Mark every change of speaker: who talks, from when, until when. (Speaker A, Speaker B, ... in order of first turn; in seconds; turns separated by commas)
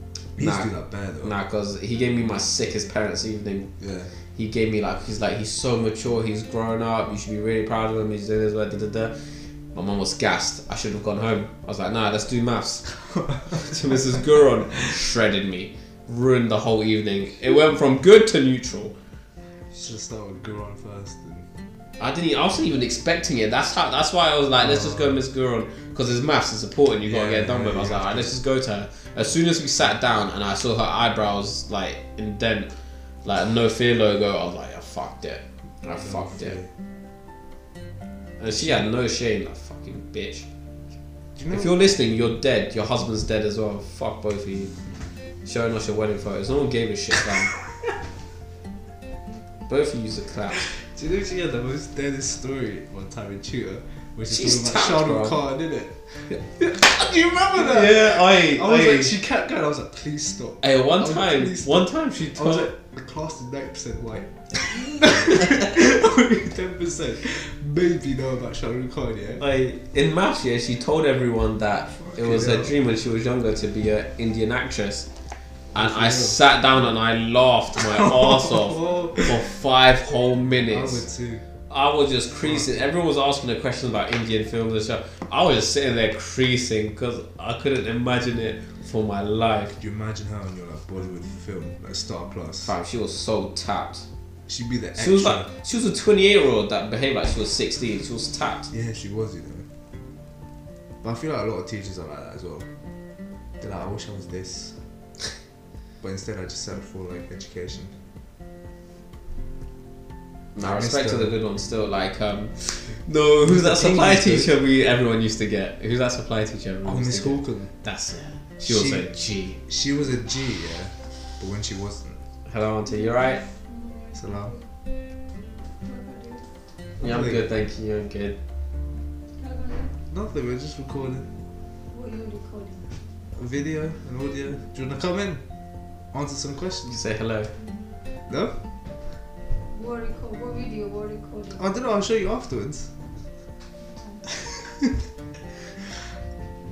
Speaker A: 0.3-1.4, Speaker B: 0.4-3.7, Speaker A: 3.8-4.1, Speaker B: 4.3-12.9, Speaker A: 13.0-14.4, Speaker B: 13.5-18.9, Speaker A: 19.7-21.5, Speaker B: 22.0-32.7, Speaker A: 24.6-25.2, Speaker A: 27.0-28.4, Speaker B: 33.2-36.6, Speaker A: 35.9-36.7, Speaker B: 38.4-40.5, Speaker A: 38.5-38.9, Speaker A: 41.4-41.8, Speaker B: 41.5-44.7, Speaker B: 45.5-47.5, Speaker B: 49.7-50.7, Speaker A: 50.7-69.4, Speaker B: 54.3-55.4, Speaker B: 57.6-59.2, Speaker B: 60.6-62.7, Speaker B: 65.2-65.6, Speaker B: 69.4-75.1, Speaker A: 72.0-72.8, Speaker A: 75.7-76.4, Speaker B: 75.7-81.0, Speaker A: 77.9-79.4, Speaker A: 80.7-81.5, Speaker B: 81.7-89.8, Speaker A: 82.4-82.8, Speaker A: 89.8-92.8, Speaker B: 92.6-94.1, Speaker A: 94.5-95.5, Speaker B: 95.0-98.7, Speaker A: 98.7-99.7, Speaker A: 101.0-102.7, Speaker A: 103.6-104.8, Speaker A: 106.0-108.0, Speaker B: 110.5-119.6, Speaker A: 110.6-111.3, Speaker A: 113.4-114.6, Speaker A: 116.8-117.7, Speaker A: 118.6-122.2, Speaker B: 122.5-123.4, Speaker C: 122.8-124.6, Speaker A: 124.2-124.5, Speaker C: 125.8-126.5, Speaker A: 127.0-127.5, Speaker B: 127.0-128.4, Speaker C: 129.4-129.9, Speaker A: 130.1-131.3, Speaker C: 131.9-132.9, Speaker A: 133.3-135.4, Speaker A: 136.1-137.0, Speaker B: 136.9-137.5, Speaker A: 138.3-138.6, Speaker C: 139.7-141.8, Speaker A: 141.5-142.9, Speaker C: 143.8-144.4, Speaker A: 144.5-144.9